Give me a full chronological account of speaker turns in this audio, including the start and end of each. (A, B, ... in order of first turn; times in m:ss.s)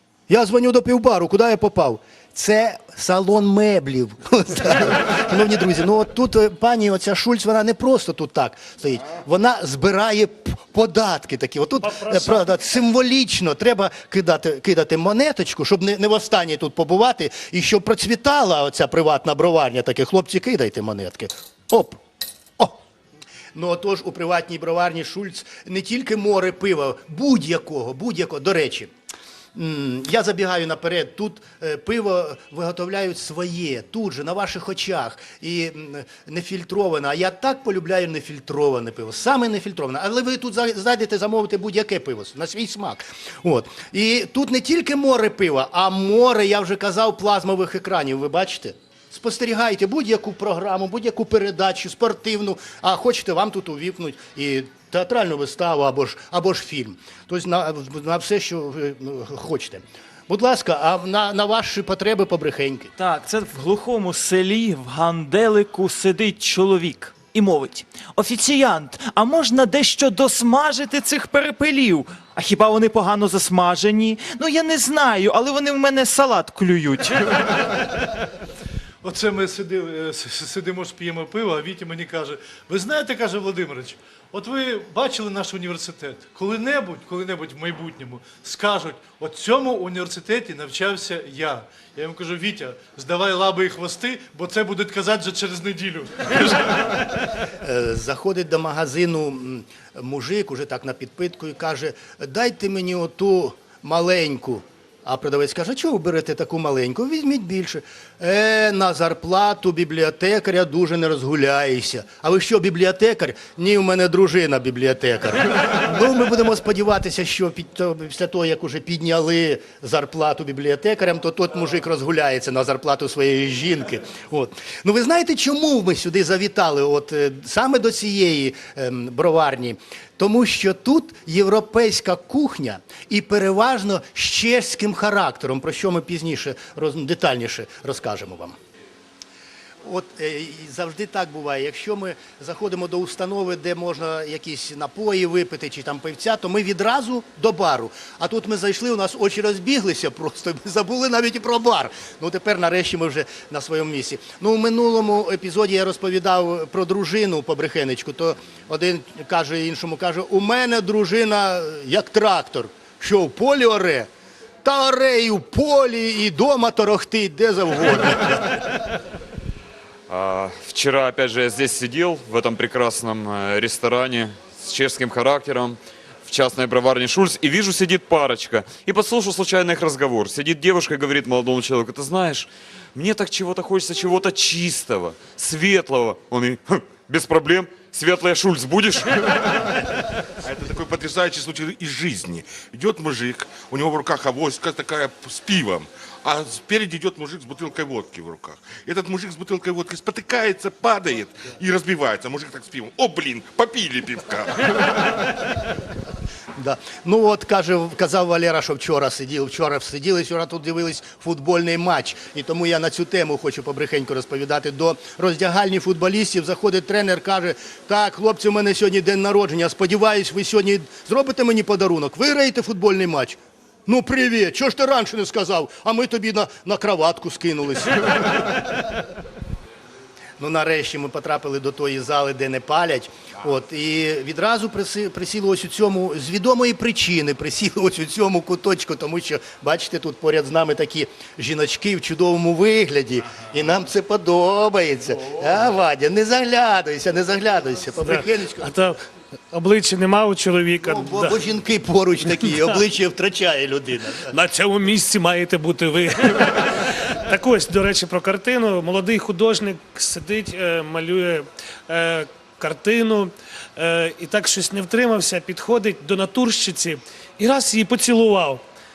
0:00.3-0:22.0 A
0:11.8-0:12.4 B
0:23.6-0:28.9 A
0:29.6-1:02.9 A
1:03.0-1:17.4 C
1:19.0-1:37.0 D
1:37.6-2:18.6 A
2:19.8-2:44.1 A
2:44.6-2:48.9 A
2:50.1-3:09.3 E
3:10.4-3:25.4 F
3:26.6-3:48.9 A
3:50.4-4:08.7 A
4:08.0-4:09.0 B
4:09.5-4:11.4 B
4:10.8-4:14.3 A
4:14.3-4:28.6 B